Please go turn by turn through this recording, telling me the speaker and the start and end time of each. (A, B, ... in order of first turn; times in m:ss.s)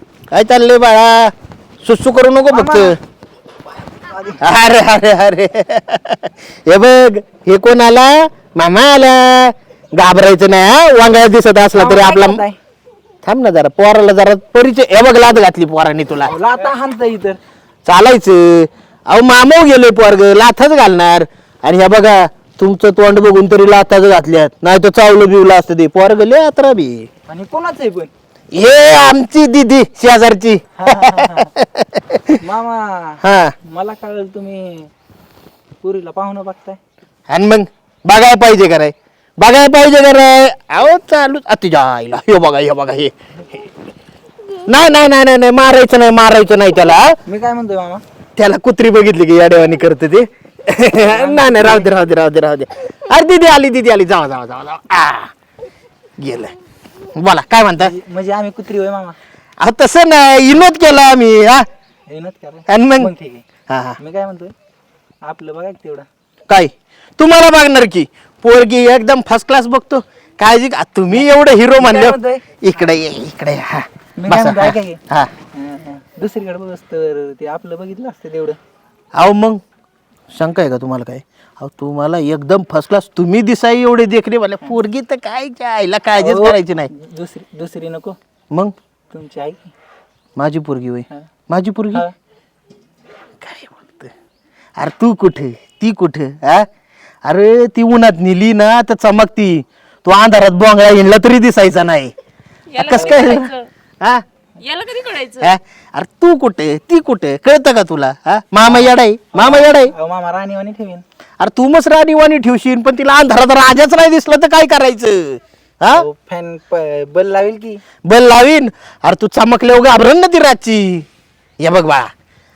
0:00.3-0:03.0 A
0:02.5-0:02.9 B
0:04.0-0:04.4 B
0:04.4-0:12.4 A
0:11.7-0:12.6 B
0:13.2-0:16.3 A
0:16.2-0:17.4 B
0:17.8-0:27.1 A
0:27.3-0:28.1 B
0:28.5-0:32.4 A
0:30.8-0:31.5 B
0:32.4-0:34.9 B
0:33.2-0:33.5 A
0:35.8-0:36.8 B
0:37.3-0:43.6 A
0:44.6-0:47.2 A
0:47.2-0:48.0 B
0:48.4-0:55.3 A
0:51.0-0:51.9 B
0:56.2-0:56.5 A
0:57.1-0:57.9 A
0:57.8-0:59.2 B
0:59.6-1:01.7 A
1:02.1-1:03.4 B
1:02.7-1:03.1 A
1:03.7-1:04.0 A
1:04.0-1:04.5 B
1:05.2-1:06.0 B
1:06.5-1:15.3 A
1:11.1-1:12.4 B
1:14.2-1:15.0 B
1:15.5-1:18.6 B
1:19.2-1:19.6 A
1:20.3-1:26.9 A
1:26.2-1:28.2 B
1:29.1-1:29.7 B
1:30.4-1:32.0 A
1:33.4-1:34.1 A
1:34.8-1:36.7 A
1:37.2-1:42.1 A
1:42.7-1:43.7 C
1:42.8-1:44.2 A
1:42.9-1:43.4 B
1:44.6-1:45.5 C
1:45.4-1:49.9 A
1:48.6-1:51.0 B
1:51.4-1:56.0 A
1:55.9-1:57.8 B
1:58.0-2:01.0 A
2:01.6-2:02.1 A